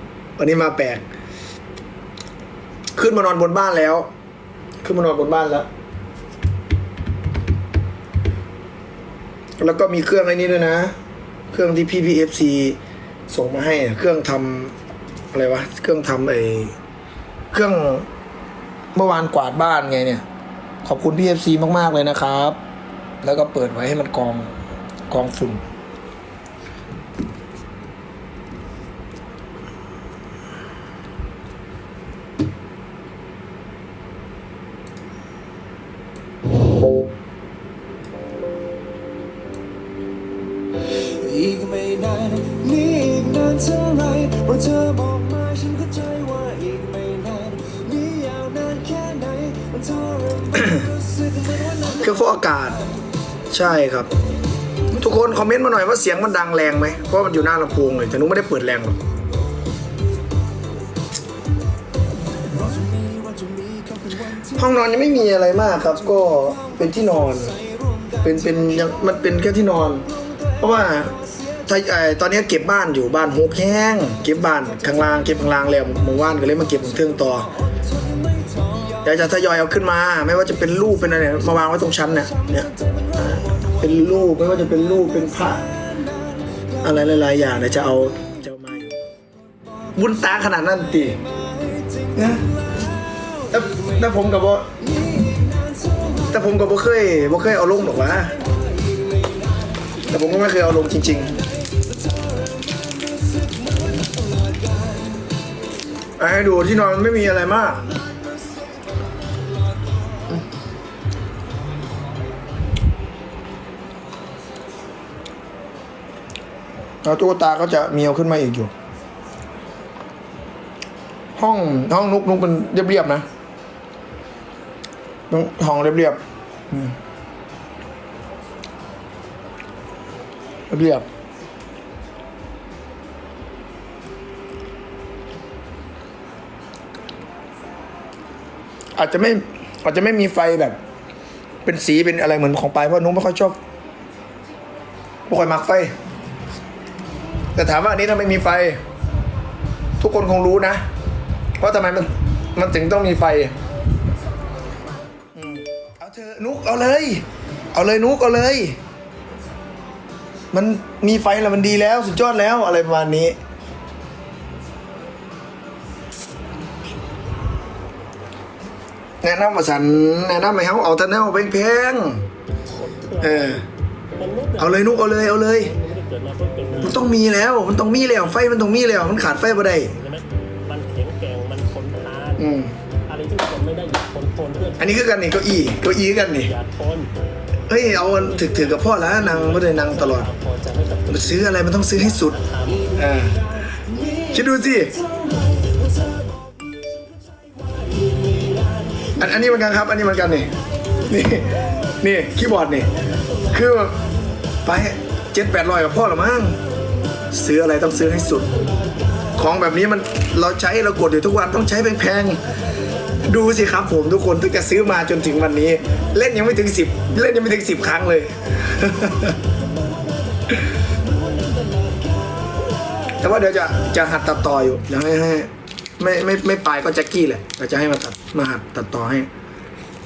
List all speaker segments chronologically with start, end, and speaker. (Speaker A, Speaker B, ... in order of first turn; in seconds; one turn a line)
Speaker A: 0.4-1.0
Speaker A: 2.9-4.1
Speaker A: 4.8-5.7
Speaker A: 9.6-10.9
Speaker A: 11.5-12.8
Speaker A: 13.3-14.7
Speaker A: 15.3-16.7
Speaker A: 17.5-18.1
Speaker A: 18.9-20.2
Speaker A: 20.8-22.6
Speaker A: 23.2-24.5
Speaker A: 25.1-25.6
Speaker B: 41.1-50.5
Speaker A: 51.8-52.8
Speaker A: 53.5-54.1
Speaker A: 54.9-59.0
Speaker B: 62.8-64.0
Speaker A: 64.4-67.6
Speaker A: 68.2-70.0
Speaker A: 70.6-71.1
Speaker A: 71.6-77.5
Speaker A: 79.0-85.7
Speaker A: 86.8-88.9
Speaker A: 89.9-91.2
Speaker A: 92.1-92.5
Speaker A: 93.5-94.7
Speaker A: 96.2-98.4
Speaker A: 100.1-101.3
Speaker B: 102.7-105.0
Speaker A: 106.2-107.9
Speaker A: 117.0-118.7
Speaker A: 121.4-123.2
Speaker A: 125.3-126.2
Speaker A: 130.7-131.0
Speaker A: 138.9-140.8
Speaker A: 141.6-143.6
Speaker A: 145.3-145.9
Speaker A: 147.5-148.8
Speaker A: 150.0-150.8
Speaker A: 151.6-153.5
Speaker A: 155.3-158.8
Speaker A: 160.5-163.4
Speaker A: 169.2-172.2
Speaker C: 172.7-173.6
Speaker A: 173.2-173.6
Speaker C: 174.2-177.0
Speaker A: 174.6-175.7
Speaker A: 176.8-179.9
Speaker C: 179.8-182.4
Speaker A: 182.4-182.7
Speaker C: 183.1-185.0
Speaker A: 184.8-186.5
Speaker C: 186.4-187.1
Speaker A: 187.7-190.3
Speaker C: 188.0-192.9
Speaker A: 191.1-192.4
Speaker A: 192.9-193.4
Speaker A: 194.3-195.0
Speaker A: 199.1-200.5
Speaker A: 201.0-202.9
Speaker A: 203.5-204.0
Speaker A: 204.6-206.6
Speaker A: 207.3-208.5
Speaker A: 209.3-212.4
Speaker A: 213.2-219.3
Speaker B: 221.4-222.7
Speaker A: 223.1-229.3